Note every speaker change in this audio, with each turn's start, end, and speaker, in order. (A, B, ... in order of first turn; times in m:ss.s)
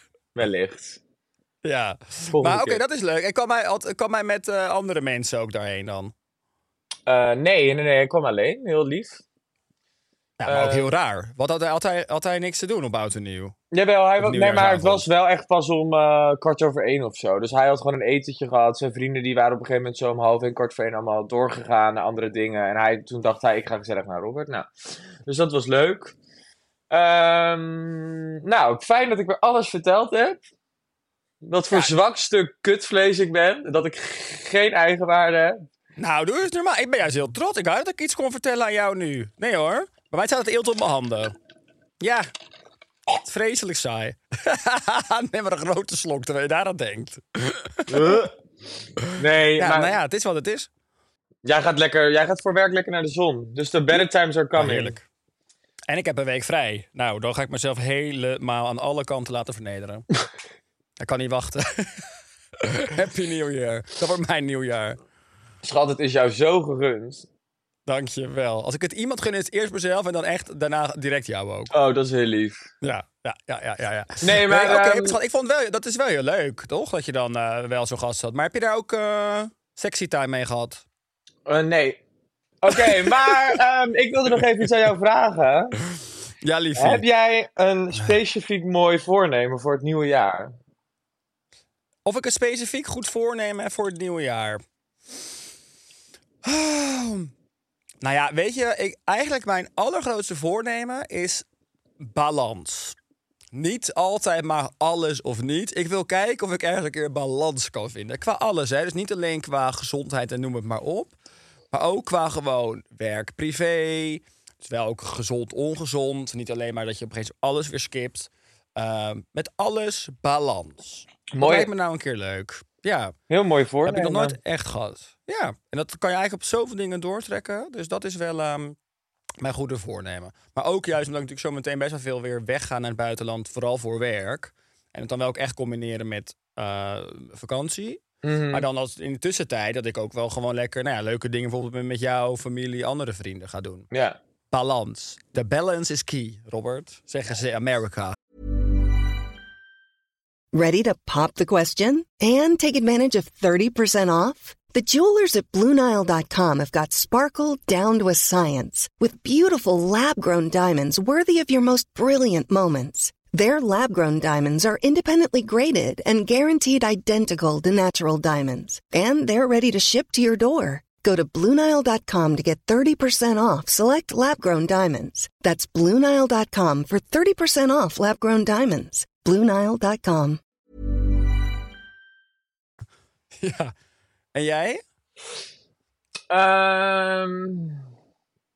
0:00.3-0:01.0 A
0:01.6-0:06.1 B
0:02.3-0:02.8 A
0:07.1-0:09.2 A
0:10.4-0:13.6 B
0:10.4-0:10.9 A
0:13.7-0:24.7 A
0:14.2-0:15.0 B
0:25.2-0:26.1 A
0:26.9-0:30.4 A
0:31.4-0:35.6 A
0:36.0-0:41.3 B
0:42.0-0:42.3 B
0:43.2-0:48.2 B
0:47.9-0:48.3 A
0:49.1-0:50.0 A
0:49.6-0:50.7 B
0:51.4-0:55.0 A
0:54.6-0:55.0 B
0:55.9-1:00.1 B
1:01.0-1:02.1 B
1:02.6-1:05.0 B
1:05.6-1:07.3 A
1:07.9-1:11.7 B
1:11.7-1:12.7 A
1:12.8-1:20.8 B
1:14.2-1:15.2 A
1:21.4-1:22.0 A
1:22.6-1:25.8 A
1:22.9-1:23.6 B
1:26.4-1:27.0 B
1:26.8-1:30.5 A
1:32.0-1:34.6 B
1:36.4-1:37.3 B
1:38.0-1:41.4 B
1:42.0-1:43.0 B
1:43.5-1:51.1 B
1:51.7-2:03.1 B
2:01.3-2:01.7 A
2:03.3-2:04.4 A
2:03.9-2:08.8 B
2:09.4-2:23.9 B
2:18.2-2:18.6 A
2:23.9-2:24.2 A
2:24.5-2:28.1 B
2:30.5-3:00.4 C
3:03.4-3:03.7 B
3:04.4-3:04.8 B
3:06.3-3:07.8 A